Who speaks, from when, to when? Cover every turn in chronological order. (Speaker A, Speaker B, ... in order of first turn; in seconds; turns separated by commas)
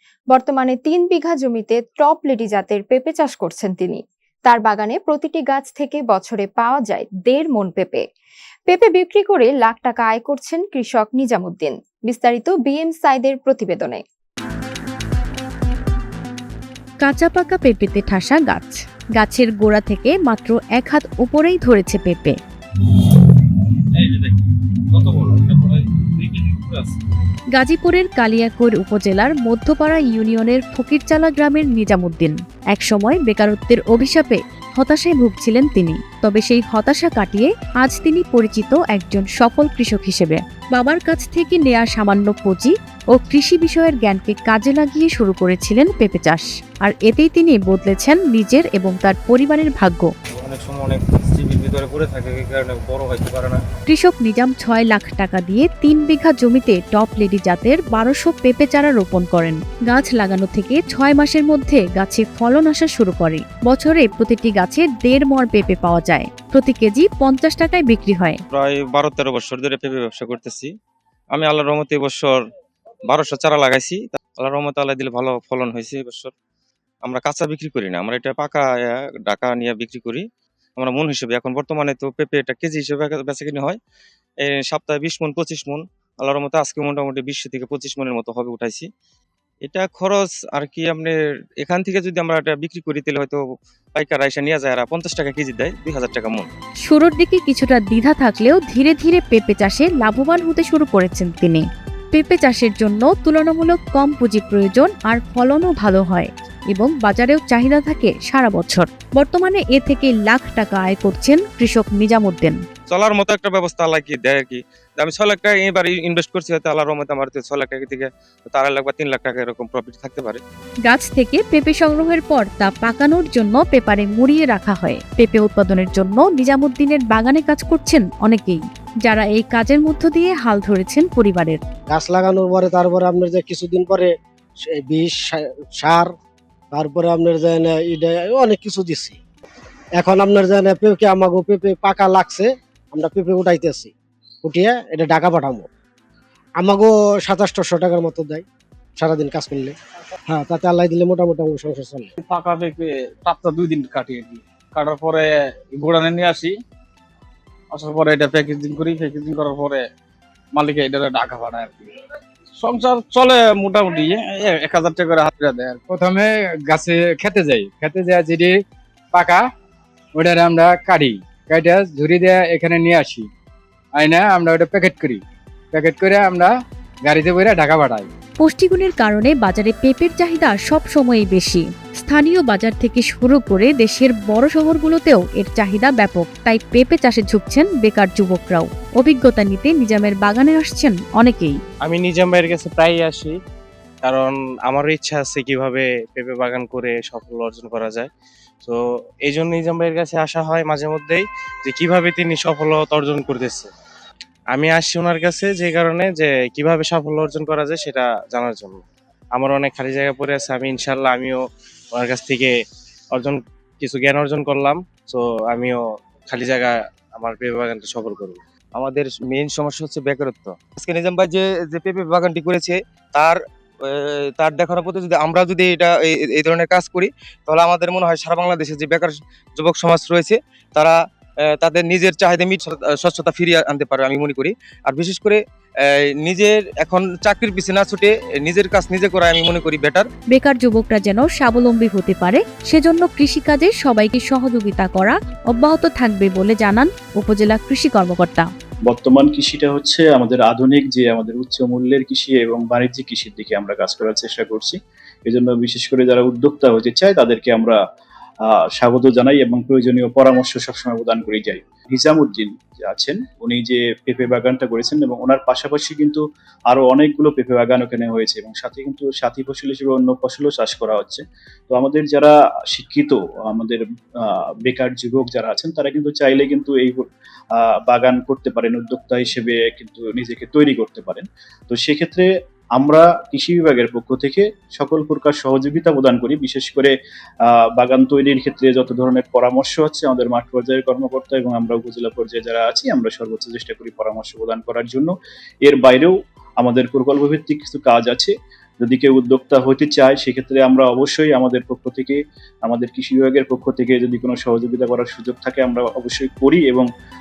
Speaker A: 0.3-8.1, Speaker A: 8.7-14.0, Speaker B: 17.0-22.4, Speaker C: 24.0-24.4, Speaker C: 24.9-26.9, Speaker B: 27.6-50.1, Speaker C: 50.3-53.6, Speaker B: 53.9-68.4, Speaker C: 68.5-70.7, Speaker C: 71.3-72.3, Speaker C: 73.1-76.3, Speaker C: 77.0-80.2, Speaker C: 80.8-83.8, Speaker C: 84.4-88.9, Speaker C: 89.7-93.4, Speaker C: 94.0-96.5, Speaker B: 96.9-112.6, Speaker C: 112.9-120.4, Speaker B: 120.9-131.6, Speaker D: 131.9-134.1, Speaker D: 134.8-136.1, Speaker D: 136.7-139.2, Speaker D: 140.0-143.9, Speaker D: 144.4-145.7, Speaker D: 146.6-148.4, Speaker D: 149.0-149.8, Speaker D: 150.3-152.1, Speaker E: 152.2-156.6, Speaker E: 157.7-159.9, Speaker E: 160.5-161.9, Speaker E: 162.6-165.8, Speaker F: 165.9-169.5, Speaker F: 170.1-173.3, Speaker F: 173.9-178.1, Speaker B: 178.4-191.6, Speaker G: 191.8-193.3, Speaker G: 194.0-198.1, Speaker G: 198.6-203.7, Speaker G: 204.5-208.8, Speaker G: 209.4-211.4, Speaker G: 211.9-212.5, Speaker G: 213.1-218.4, Speaker C: 218.8-231.0, Speaker C: 231.5-240.1, Speaker B: 240.3-248.5, Speaker H: 248.9-257.8, Speaker H: 258.5-286.9, Speaker H: 287.5-295.1, Speaker H: 295.6-306.9